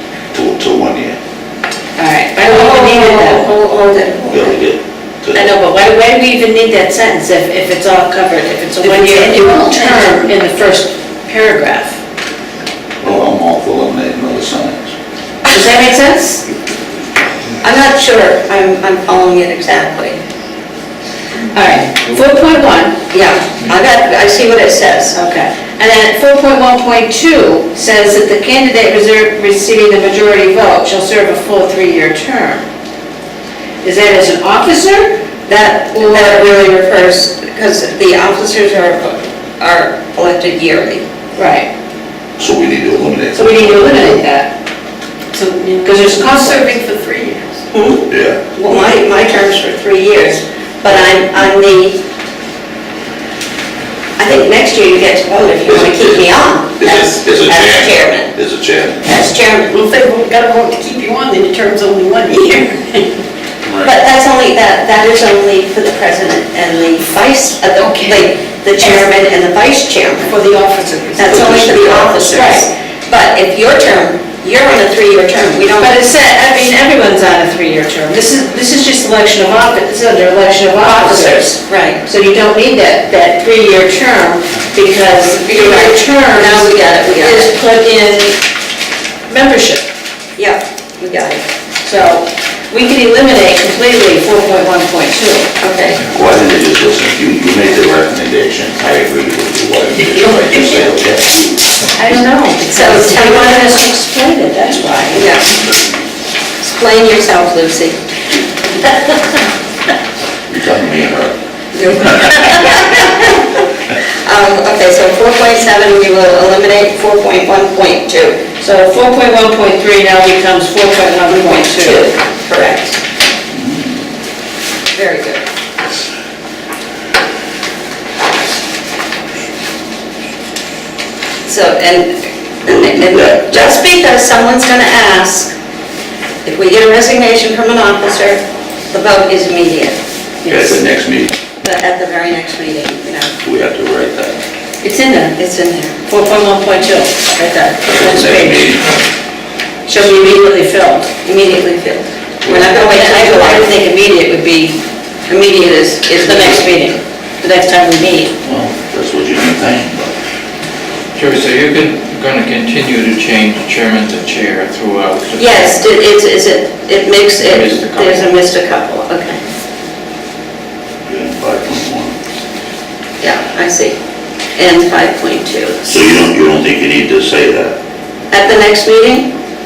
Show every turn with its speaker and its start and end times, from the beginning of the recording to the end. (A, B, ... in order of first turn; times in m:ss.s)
0:00.3-0:01.2 A
0:02.0-0:04.2 B
0:02.4-0:04.5 C
0:04.2-0:05.5 A
0:05.3-0:12.0 B
0:08.8-0:10.3 D
0:13.0-0:14.9 A
0:15.4-0:16.4 B
0:17.6-0:20.2 C
0:21.5-0:23.0 B
0:23.1-0:25.2 C
0:25.1-0:32.6 B
0:33.8-0:35.2 B
0:35.5-0:41.0 C
0:35.9-0:36.6 B
0:41.4-0:41.7 B
0:42.4-0:44.2 A
0:43.3-0:44.5 B
0:45.3-0:47.6 D
0:45.8-0:46.7 B
0:47.7-0:52.0 C
0:48.1-0:48.5 A
0:48.7-0:48.9 D
0:54.2-0:58.3 C
0:55.6-0:59.0 A
0:59.0-0:59.8 C
0:59.7-1:03.2 D
1:03.8-1:10.4 C
1:07.8-1:08.2 B
1:08.8-1:09.0 D
1:10.3-1:12.5 D
1:11.2-1:16.0 C
1:12.3-1:12.6 B
1:15.8-1:28.4 B
1:20.8-1:22.0 C
1:25.4-1:27.5 C
1:29.3-1:29.8 B
1:30.4-1:31.4 C
1:31.8-1:35.5 B
1:35.6-1:36.1 C
1:36.1-1:41.5 A
1:41.9-1:45.3 B
1:42.7-1:43.7 C
1:45.1-1:45.6 C
1:46.6-1:48.0 C
1:50.5-1:51.4 A
1:51.7-1:53.6 C
1:54.2-1:58.4 C
1:58.6-2:02.1 B
2:01.3-2:03.0 C
2:03.5-2:04.0 A
2:04.9-2:05.4 C
2:11.5-2:15.5 C
2:12.6-2:13.8 A
2:16.4-2:20.0 C
2:20.4-2:20.8 B
2:20.5-2:21.4 A
2:21.6-2:23.4 C
2:23.4-2:24.4 A
2:24.8-2:25.4 B
2:25.4-2:26.0 C
2:26.0-2:28.8 B
2:27.9-2:28.9 A
2:29.9-2:31.1 B
2:31.2-2:33.8 C
2:32.5-2:34.8 B
2:35.3-2:36.8 C
2:36.2-2:38.4 B
2:38.4-2:40.1 A
2:41.2-2:45.8 E
2:45.4-2:49.4 C
2:47.4-2:48.3 E
2:51.0-2:52.2 A
2:53.2-2:54.0 C
2:54.6-2:56.0 C
2:55.9-2:57.8 A
2:58.3-2:59.3 C